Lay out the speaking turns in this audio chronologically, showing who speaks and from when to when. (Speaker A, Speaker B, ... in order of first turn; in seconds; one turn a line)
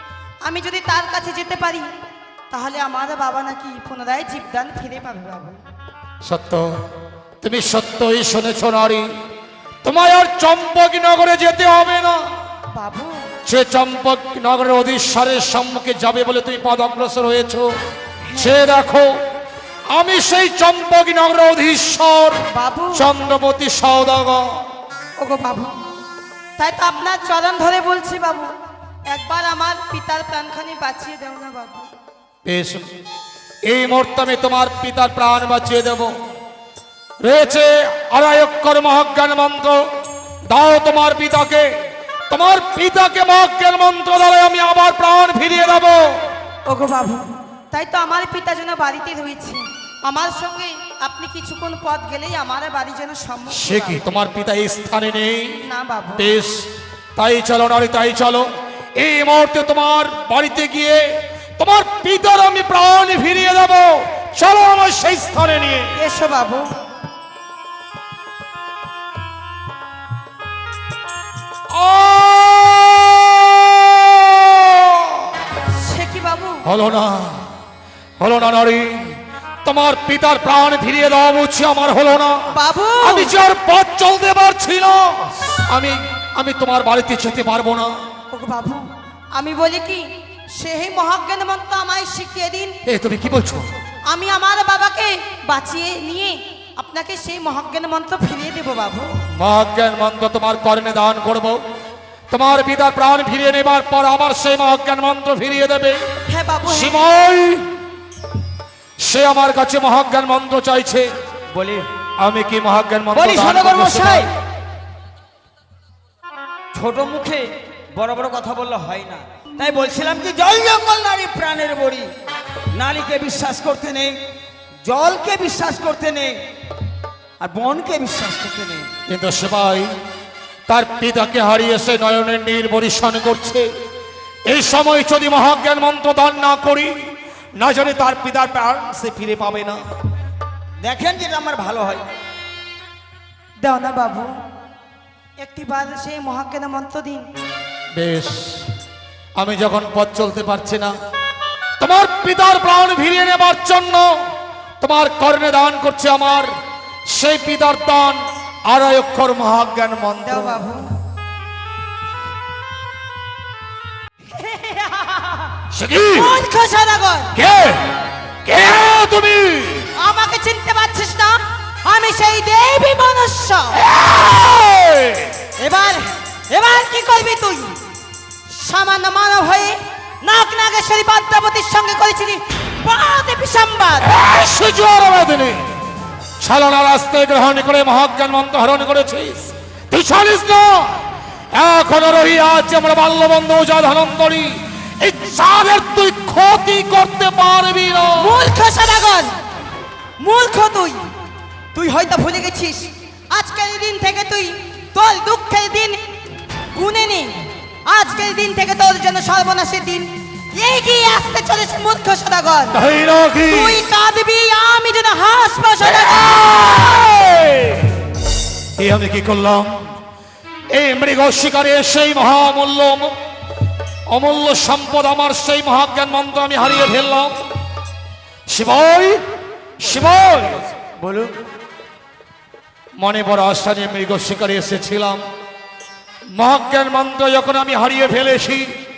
Speaker A: 0.4-1.9
Speaker A: 2.5-5.6
Speaker B: 6.2-6.7
Speaker B: 7.4-9.1
Speaker B: 9.8-12.2
Speaker A: 12.7-13.2
Speaker B: 13.4-17.7
Speaker A: 18.2-18.6
Speaker B: 18.4-19.1
Speaker B: 19.9-22.4
Speaker A: 22.5-23.1
Speaker B: 22.9-24.5
Speaker A: 25.2-25.7
Speaker A: 26.6-28.5
Speaker A: 29.1-31.9
Speaker B: 32.4-32.8
Speaker B: 33.7-36.1
Speaker B: 37.2-39.8
Speaker B: 40.5-41.7
Speaker B: 42.3-46.0
Speaker A: 46.6-54.0
Speaker B: 53.5-55.6
Speaker A: 55.6-56.3
Speaker B: 56.2-56.6
Speaker B: 57.1-61.0
Speaker B: 61.6-65.9
Speaker A: 65.9-66.7
Speaker B: 71.7-75.3
Speaker A: 75.7-76.6
Speaker B: 76.6-77.5
Speaker B: 78.2-82.5
Speaker A: 82.5-83.3
Speaker B: 83.0-87.9
Speaker A: 88.3-92.8
Speaker B: 92.8-93.7
Speaker A: 94.1-99.1
Speaker B: 99.3-101.6
Speaker B: 102.3-106.0
Speaker A: 106.3-107.1
Speaker B: 106.7-107.7
Speaker B: 109.0-111.1
Speaker C: 111.5-111.8
Speaker B: 112.2-114.3
Speaker C: 113.1-114.3
Speaker C: 116.7-122.1
Speaker C: 122.7-124.2
Speaker C: 124.8-126.3
Speaker C: 127.4-128.9
Speaker B: 129.1-129.9
Speaker B: 130.7-133.7
Speaker B: 134.5-136.9
Speaker B: 137.6-139.8
Speaker C: 140.8-142.0
Speaker A: 143.6-144.3
Speaker A: 145.4-147.2
Speaker B: 147.9-148.7
Speaker B: 149.4-150.9
Speaker B: 151.8-154.1
Speaker B: 154.8-156.5
Speaker B: 157.1-160.6
Speaker A: 160.2-160.8
Speaker B: 165.7-166.4
Speaker A: 166.1-167.3
Speaker B: 167.3-167.9
Speaker B: 168.4-169.9
Speaker A: 170.0-173.8
Speaker B: 173.8-175.4
Speaker A: 175.6-177.8
Speaker A: 178.5-184.1
Speaker B: 184.0-185.6
Speaker B: 186.4-198.3
Speaker A: 198.2-199.3
Speaker A: 200.2-201.0
Speaker A: 201.7-206.0
Speaker A: 206.7-212.8
Speaker B: 212.7-213.8
Speaker A: 213.5-216.3
Speaker B: 215.9-218.0
Speaker B: 218.8-219.7
Speaker B: 220.7-223.1
Speaker B: 224.1-227.3
Speaker B: 228.5-229.2
Speaker B: 229.8-230.6
Speaker C: 230.8-231.3
Speaker B: 233.0-235.2
Speaker B: 236.3-238.7